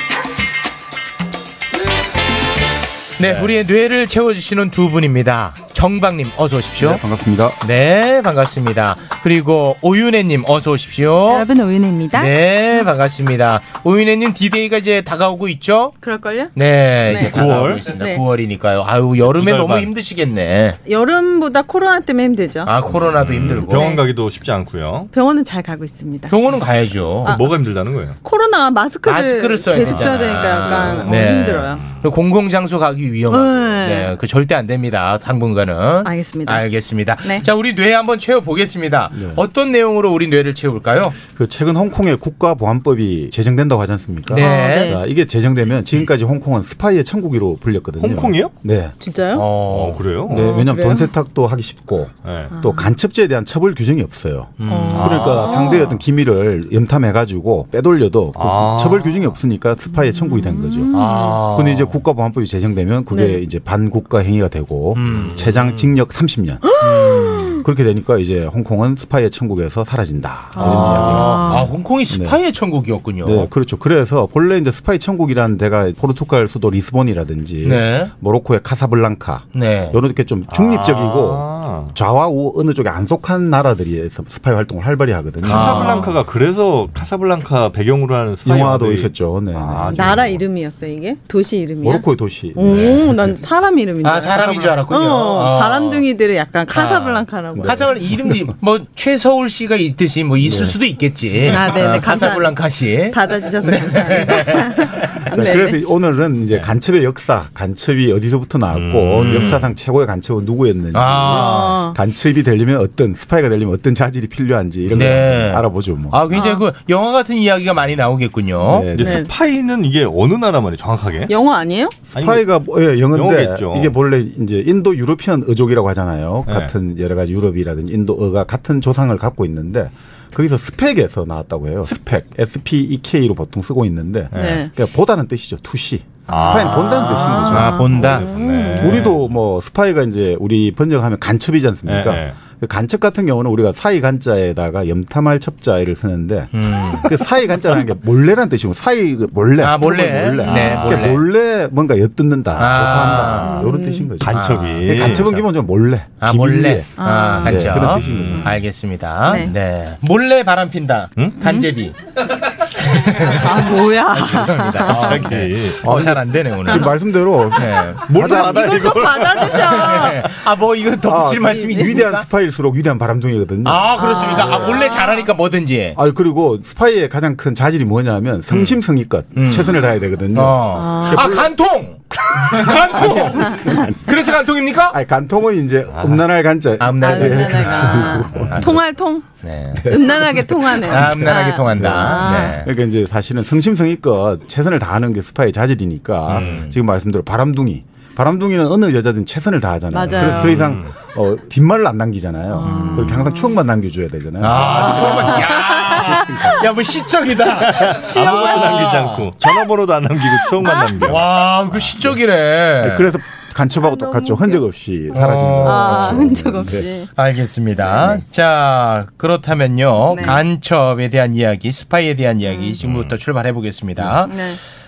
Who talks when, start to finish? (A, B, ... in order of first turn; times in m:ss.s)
0:03.2-0:07.0 A
0:03.2-0:03.5 B
0:06.8-0:07.6 C
0:07.6-0:11.4 A
0:11.3-0:12.3 D
0:12.1-0:16.0 A
0:16.0-0:16.5 D
0:16.5-0:20.8 A
0:17.1-0:17.3 D
0:17.1-0:17.9 B
0:17.8-0:18.2 D
0:19.2-0:19.9 B
0:20.8-0:22.8 D
0:22.6-0:24.0 A
0:23.0-0:25.1 B
0:23.6-0:24.0 D
0:25.1-0:26.3 D
0:26.3-0:27.4 A
0:27.2-0:28.2 B
0:28.2-0:31.8 D
0:29.0-0:41.2 A
0:29.9-0:31.1 B
0:33.3-0:34.1 D
0:36.0-0:36.7 D
0:39.1-0:39.4 C
0:41.3-0:48.9 C
0:44.3-0:45.0 A
0:44.4-0:45.0 D
0:48.0-0:48.5 B
0:49.0-0:49.5 D
0:49.3-0:50.0 A
0:49.7-0:50.5 B
0:50.3-1:06.6 C
0:50.3-0:51.1 D
0:52.2-0:52.6 B
0:52.5-0:52.9 D
0:54.6-0:55.5 A
0:54.6-0:56.0 D
0:54.9-0:55.8 B
0:58.3-0:59.4 B
0:59.9-1:01.5 D
1:00.9-1:02.0 A
1:03.1-1:03.4 D
1:04.9-1:05.4 A
1:05.0-1:05.9 B
1:06.6-1:07.6 D
1:06.8-1:07.6 A
1:07.6-1:12.4 C
1:10.5-1:11.7 D
1:10.6-1:13.5 A
1:13.2-1:25.9 C
1:17.6-1:18.1 A
1:19.5-1:20.0 A
1:20.5-1:22.0 B
1:25.4-1:30.4 B
1:25.4-1:26.1 A
1:28.4-1:30.4 C
1:29.9-1:38.0 D
1:31.8-1:33.4 C
1:32.6-1:33.1 B
1:34.0-1:36.0 A
1:36.7-1:45.1 A
1:37.5-1:38.6 C
1:40.4-1:40.8 C
1:41.4-1:42.6 D
1:43.1-1:45.8 D
1:45.3-1:56.3 C
1:48.7-1:49.7 B
1:49.2-1:49.6 A
1:50.9-1:51.9 A
1:51.3-1:52.0 D
1:54.9-1:58.9 A
1:56.3-1:56.6 D
1:58.6-1:59.2 C
1:58.9-2:01.3 B
1:59.0-1:59.3 D
2:01.3-2:02.0 D
2:02.1-2:18.2 C
2:02.1-2:02.5 B
2:03.1-2:04.0 B
2:06.5-2:06.7 B
2:14.3-2:14.7 B
2:14.3-2:14.7 D
2:16.3-2:19.3 B
2:16.4-2:19.0 D
2:16.5-2:18.3 A
2:18.8-2:38.6 C
2:21.8-2:22.4 B
2:26.5-2:27.2 A
2:29.6-2:31.2 A
2:30.5-2:30.8 D
2:30.5-2:31.0 B
2:32.6-2:33.7 A
2:33.3-2:34.1 D
2:34.2-2:35.5 B
2:34.3-2:35.3 A
2:36.2-2:42.0 A
2:37.0-2:37.7 D
2:37.8-2:38.6 B
2:39.2-2:39.5 D
2:41.2-2:41.4 B
2:41.4-2:41.7 D
2:42.7-2:46.9 A
2:43.2-2:45.2 D
2:44.8-2:45.8 B
2:45.8-2:49.0 C
2:47.5-2:48.2 A
2:48.1-2:49.9 B
2:48.1-2:50.2 D
2:49.5-2:52.2 A
2:51.0-2:54.9 C
2:51.5-2:52.0 D
2:53.6-2:56.0 A
2:53.9-2:55.2 D
2:55.9-3:01.6 C
2:59.3-2:59.8 A
3:00.3-3:05.0 A
3:00.7-3:01.3 D
3:02.1-3:04.3 C
3:03.4-3:03.7 D
3:04.9-3:08.8 C
3:05.9-3:06.3 B
3:06.8-3:08.8 A
3:07.0-3:09.2 D
3:07.7-3:08.6 B
3:09.4-3:09.9 A
3:09.8-3:25.5 C
3:09.8-3:12.6 D
3:10.8-3:12.7 A
3:16.2-3:16.8 A
3:16.3-3:16.7 B
3:19.9-3:20.6 D
3:20.0-3:20.9 B
3:20.2-3:20.5 A
3:22.5-3:23.6 D
3:22.6-3:23.2 A
3:24.4-3:29.3 A
3:24.5-3:26.5 D
3:27.6-3:31.9 B
3:28.1-3:28.9 D
3:30.6-3:31.0 D
3:31.0-3:33.1 A
3:32.8-3:36.9 C
3:33.8-3:34.6 D
3:35.1-3:36.3 A
3:35.6-3:37.1 D
3:37.1-3:44.4 A
3:37.9-3:38.2 D
3:40.1-3:40.4 D
3:42.4-3:42.7 D
3:42.8-3:43.2 B
3:44.2-3:44.6 D